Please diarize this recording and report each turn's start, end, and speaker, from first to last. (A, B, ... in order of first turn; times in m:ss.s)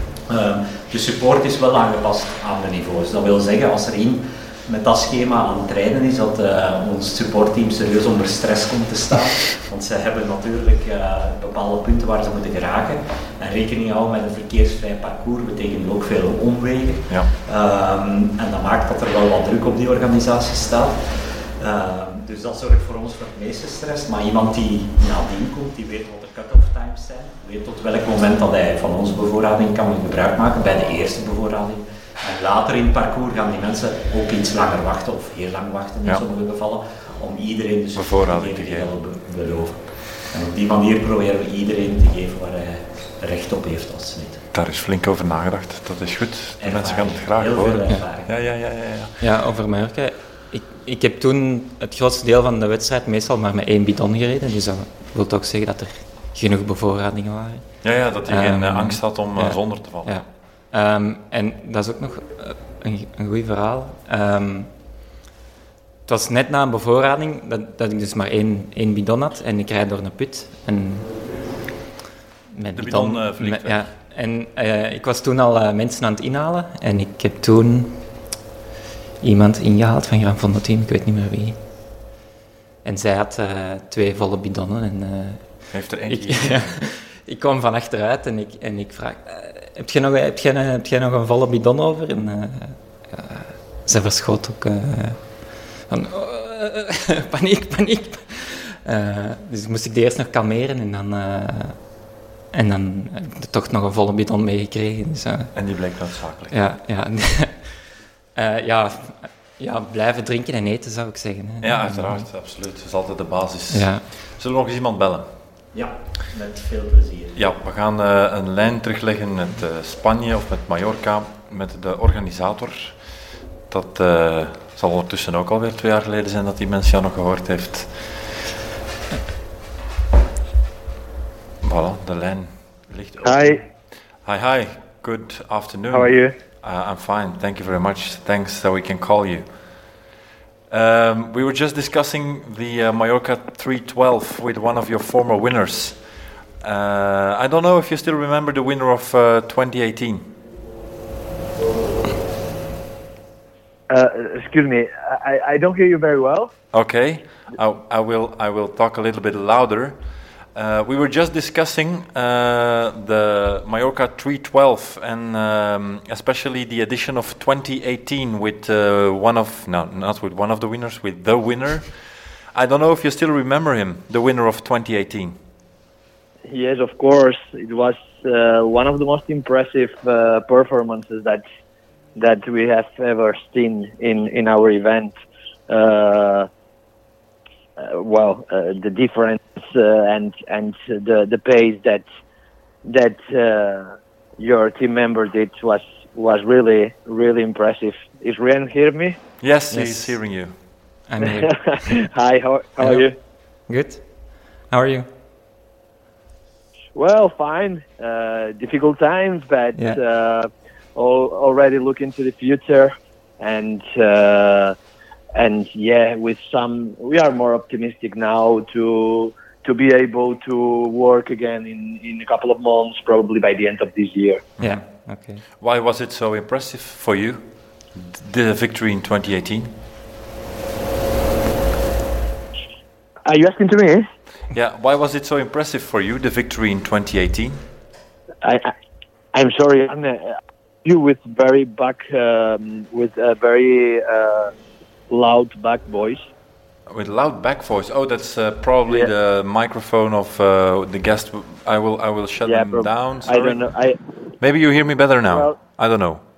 0:00.3-0:44.4 A
0:38.0-0:38.9 B
0:44.5-0:49.2 B
0:46.6-0:48.3 A
0:49.2-1:04.7 C
0:57.8-1:00.2 B
1:06.1-1:11.1 C
1:12.5-1:18.2 C
1:12.8-1:13.9 B
1:19.2-1:21.6 C
1:22.8-1:41.9 C
1:25.7-1:26.8 B
1:42.5-1:45.6 C
1:45.5-1:46.6 B
1:46.5-1:47.8 C
1:48.3-1:52.2 C
1:51.6-1:55.4 B
1:53.7-1:54.0 C
1:55.7-1:57.4 A
1:57.4-2:08.3 B
2:11.6-2:13.7 B
2:13.2-2:13.6 D
2:14.2-2:19.4 B
2:15.9-2:16.3 D
2:20.7-2:30.3 B
2:33.9-2:36.5 D
2:36.7-2:55.4 B
2:56.5-3:01.4 D
3:02.2-3:05.1 D
3:05.7-3:06.5 D
3:07.8-3:12.0 D
3:12.8-3:19.2 D
3:19.4-3:20.6 B
3:19.7-3:20.2 C
3:21.1-3:22.0 C
3:21.2-3:23.1 D
3:23.7-3:25.1 C
3:26.9-3:34.7 D
3:35.3-3:44.4 D
3:44.6-3:44.8 B
3:44.6-3:45.4 C
3:45.6-3:49.7 B
3:53.2-3:54.1 D
3:54.5-3:57.6 B
3:58.4-3:58.7 D
3:59.3-4:04.5 D
4:05.1-4:06.2 D
4:06.9-4:13.7 B
4:12.4-4:14.0 D
4:14.4-4:16.2 B
4:15.3-4:15.6 D